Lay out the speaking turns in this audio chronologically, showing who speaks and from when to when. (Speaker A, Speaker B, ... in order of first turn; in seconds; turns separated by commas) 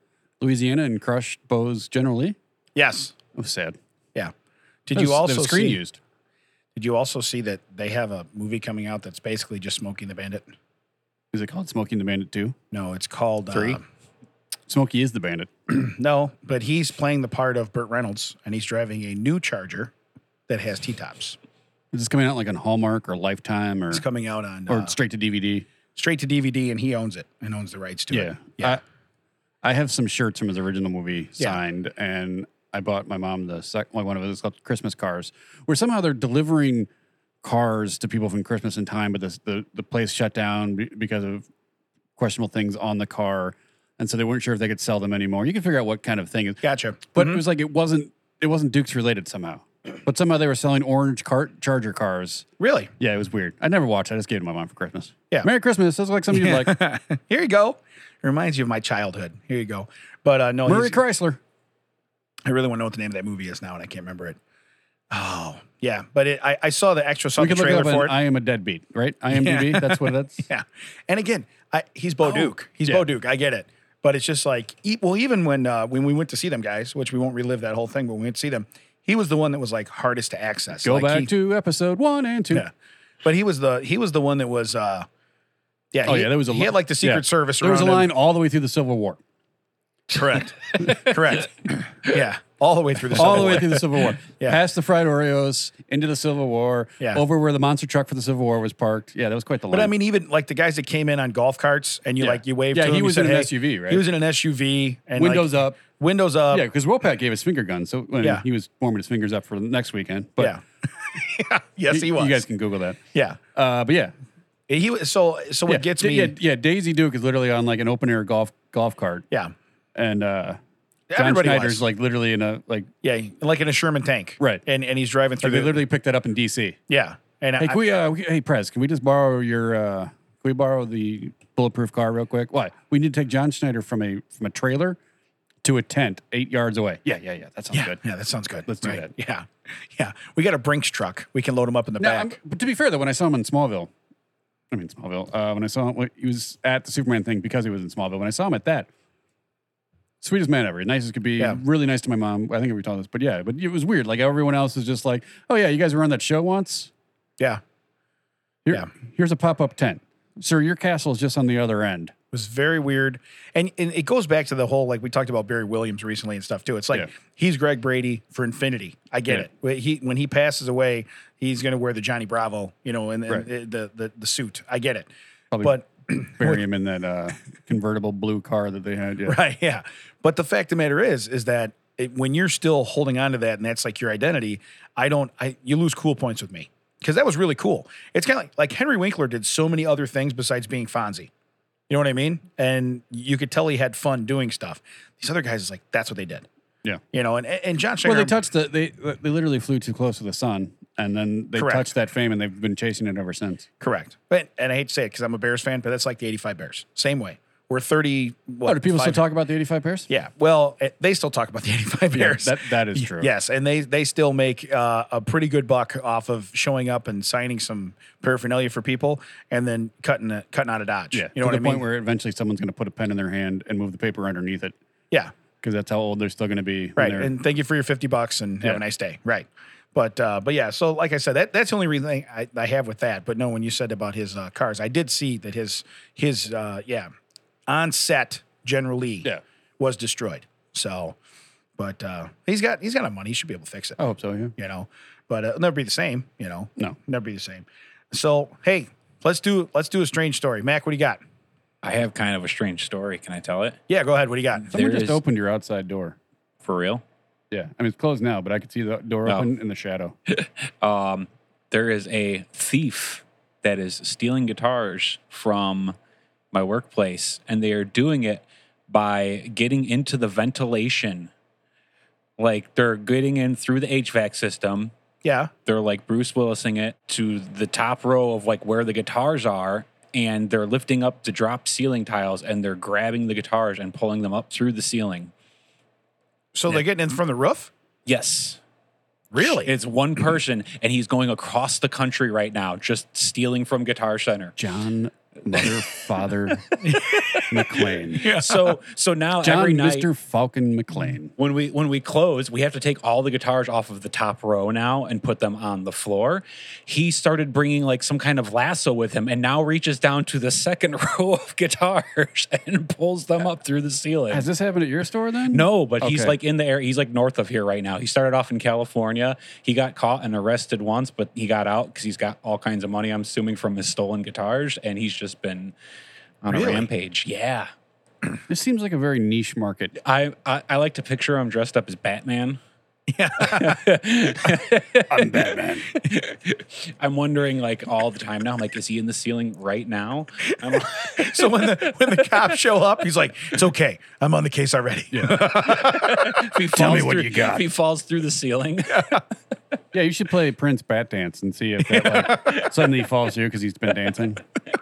Speaker A: 0.4-2.4, Speaker B: 2.7-3.1, Speaker A: 3.3-3.8, Speaker B: 4.8-5.8, Speaker A: 4.9-6.0, Speaker B: 6.7-10.5, Speaker A: 11.3-12.5, Speaker B: 12.7-13.8, Speaker A: 14.7-15.5, Speaker B: 15.7-19.9, Speaker B: 20.5-21.4, Speaker A: 21.9-24.0, Speaker B: 23.9-24.9, Speaker A: 24.7-25.6, Speaker B: 25.9-28.8, Speaker A: 28.1-28.8, Speaker A: 29.6-36.9, Speaker A: 37.4-41.4, Speaker A: 42.2-46.6, Speaker B: 46.6-47.4, Speaker A: 47.1-52.5, Speaker B: 52.6-52.9, Speaker A: 53.0-56.8, Speaker B: 56.3-61.0, Speaker A: 60.6-61.4, Speaker B: 62.4-64.4, Speaker B: 65.1-68.1, Speaker A: 67.4-70.5, Speaker B: 69.3-81.3, Speaker A: 72.2-73.0, Speaker A: 80.8-82.7, Speaker B: 83.2-85.1, Speaker B: 85.9-88.1, Speaker A: 86.0-89.2, Speaker B: 90.1-94.6, Speaker A: 93.1-99.9, Speaker B: 99.7-106.7, Speaker A: 102.2-104.0, Speaker A: 105.2-105.8, Speaker A: 106.5-110.6, Speaker B: 110.4-112.4, Speaker A: 111.9-113.0, Speaker A: 113.5-114.1, Speaker B: 114.7-116.3, Speaker A: 115.7-119.2, Speaker A: 119.9-120.6, Speaker B: 121.1-121.8, Speaker A: 121.1-122.9, Speaker B: 123.0-125.8, Speaker A: 125.4-126.8, Speaker B: 126.9-127.8, Speaker A: 127.6-135.0, Speaker A: 135.6-138.0, Speaker B: 137.7-142.3, Speaker A: 138.7-139.1, Speaker A: 142.0-143.9, Speaker A: 144.7-148.9, Speaker A: 150.2-156.9, Speaker A: 158.6-162.1, Speaker B: 162.3-175.1, Speaker A: 175.5-179.4, Speaker B: 175.6-176.6, Speaker B: 179.2-191.3, Speaker B: 191.9-196.5, Speaker B: 197.1-198.3, Speaker A: 198.0-203.7, Speaker B: 201.6-201.9, Speaker B: 203.8-209.2, Speaker A: 208.7-210.1, Speaker B: 210.1-221.8, Speaker A: 212.1-213.3, Speaker A: 221.1-224.7, Speaker A: 225.6-227.3, Speaker B: 227.0-237.1, Speaker B: 237.7-241.2, Speaker B: 241.8-244.0, Speaker A: 244.0-244.5, Speaker B: 244.6-251.2, Speaker C: 251.8-253.8, Speaker B: 253.9-254.7, Speaker C: 254.6-255.2, Speaker A: 254.7-256.2, Speaker C: 256.6-257.0, Speaker A: 257.5-260.1, Speaker C: 260.3-265.9, Speaker C: 266.5-271.3, Speaker C: 272.4-274.9, Speaker B: 275.2-275.5, Speaker C: 275.6-285.3, Speaker B: 286.5-287.7, Speaker C: 288.1-288.6, Speaker B: 289.3-289.7, Speaker C: 289.4-294.5, Speaker A: 294.6-296.8, Speaker B: 296.8-297.6, Speaker A: 297.5-298.3, Speaker B: 298.1-298.8, Speaker C: 298.2-300.1, Speaker A: 299.4-301.3, Speaker C: 301.4-314.4, Speaker A: 314.3-316.3, Speaker C: 315.5-325.7, Speaker C: 326.4-327.7, Speaker B: 326.5-326.9, Speaker A: 328.5-329.9, Speaker C: 330.0-332.6, Speaker B: 333.1-334.0, Speaker C: 333.4-335.4, Speaker A: 335.1-335.9, Speaker C: 335.9-342.4, Speaker B: 340.6-346.5, Speaker A: 345.1-345.4, Speaker C: 345.6-349.2, Speaker A: 346.7-347.6, Speaker B: 348.9-349.2, Speaker A: 349.9-354.4, Speaker B: 351.9-352.6